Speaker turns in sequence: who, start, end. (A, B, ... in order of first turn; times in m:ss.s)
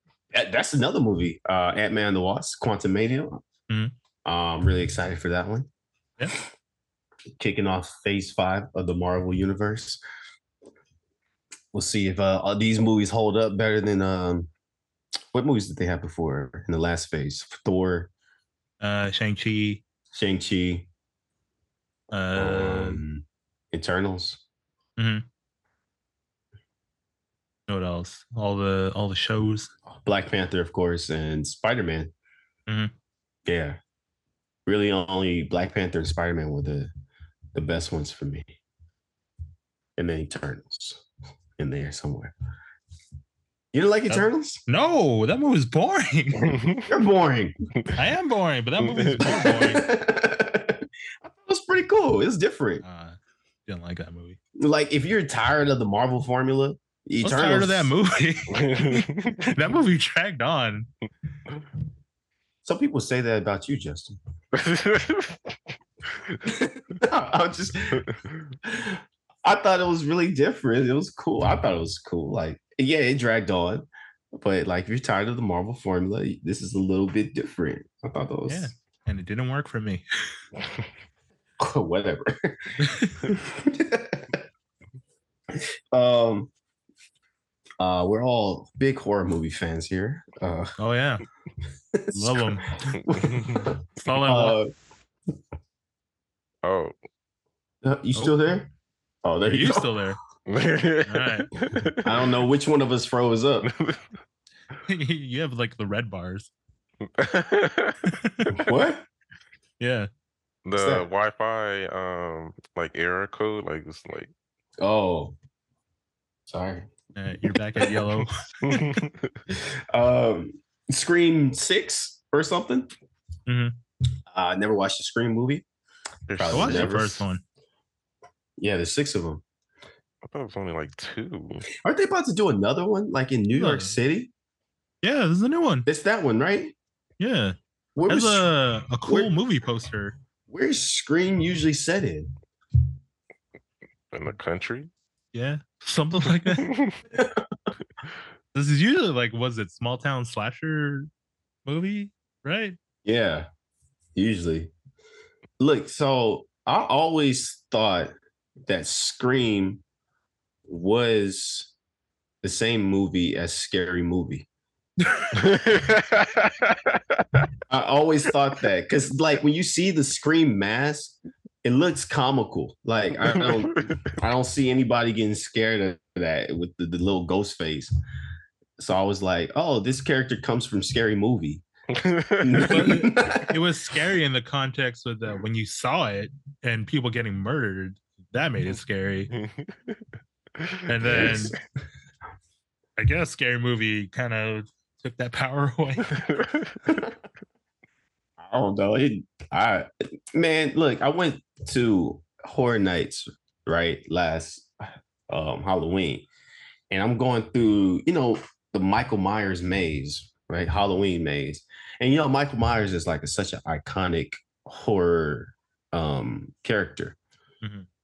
0:00.3-0:03.4 A
0:03.7-0:03.9 B
0:04.2-0:05.7 A
0:07.4-0:10.0 A
0:11.7-0:14.5 A
0:15.3-0:18.1 A
0:18.8-0:19.8 B
0:20.1-0:20.9 A
0:22.1-0:23.0 B
0:22.3-0:24.4 A
0:25.0-0:25.2 B
0:27.7-0:29.7 B
0:30.0-0:32.1 A
0:33.5-0:33.8 A
0:34.7-0:36.9 A
0:37.6-0:38.5 A
0:40.0-0:41.0 A
0:41.6-0:42.3 A
0:43.7-0:44.6 A
0:44.1-0:46.5 B
0:46.4-0:46.9 C
0:46.9-0:47.5 A
0:48.0-0:49.9 B
0:48.8-0:49.6 C
0:49.2-0:52.8 A
0:52.8-0:54.4 B
0:54.6-0:57.9 A
0:57.2-1:00.9 B
0:58.5-0:59.6 C
1:02.6-1:04.2 A
1:04.5-1:06.4 C
1:06.5-1:08.0 A
1:08.0-1:08.4 C
1:08.6-1:18.7 A
1:18.5-1:20.0 B
1:21.6-1:24.4 A
1:22.8-1:23.3 B
1:25.5-1:26.5 A
1:27.8-1:30.7 A
1:30.8-1:31.2 B
1:31.9-1:34.7 A
1:32.1-1:32.8 B
1:33.1-1:33.7 C
1:34.0-1:34.6 B
1:36.6-1:36.9 C
1:37.8-1:38.7 A
1:39.2-1:40.0 A
1:39.5-1:40.2 B
1:40.5-1:42.3 C
1:41.1-1:41.5 B
1:42.0-1:43.7 A
1:43.6-1:44.1 C
1:44.8-1:46.5 B
1:47.0-1:48.1 C
1:48.1-1:48.7 B
1:48.5-1:49.0 A
1:49.8-1:50.1 B
1:50.7-1:54.3 C
1:50.8-1:51.1 A
1:54.8-1:55.4 A
1:56.5-1:56.9 A
1:57.2-1:58.8 B
1:58.6-1:59.4 C
1:59.5-2:02.9 A
2:03.5-2:03.8 B
2:04.3-2:05.6 A
2:06.3-2:07.0 C
2:06.4-2:07.2 A
2:06.5-2:07.4 B
2:08.6-2:09.4 A
2:10.2-2:11.6 C
2:11.8-2:14.3 A
2:13.5-2:14.0 B
2:15.0-2:15.9 B
2:15.9-2:16.7 A
2:17.2-2:17.6 B
2:18.0-2:18.5 A
2:18.1-2:20.1 B
2:19.0-2:19.3 A
2:20.5-2:22.3 A
2:24.1-2:24.9 C
2:25.3-2:26.7 B
2:26.5-2:27.0 C
2:27.1-2:27.4 A
2:28.5-2:31.1 B
2:31.7-2:32.8 B
2:33.0-2:33.5 A
2:34.2-2:34.7 A
2:35.6-2:38.2 A
2:38.7-2:39.8 A
2:40.7-2:41.7 A
2:42.4-2:44.5 A
2:45.3-2:47.5 C
2:47.7-2:57.9 A
2:53.3-2:54.0 C
2:58.8-3:01.6 A
3:01.9-3:02.9 C
3:02.4-3:03.6 A
3:02.6-3:09.3 B
3:09.3-3:10.0 C
3:10.6-3:11.4 C
3:10.9-3:11.6 B
3:11.0-3:11.6 A
3:13.0-3:16.1 B
3:16.1-3:17.0 C
3:18.4-3:24.7 A
3:25.3-3:26.3 A
3:26.9-3:37.2 A
3:37.6-3:37.9 B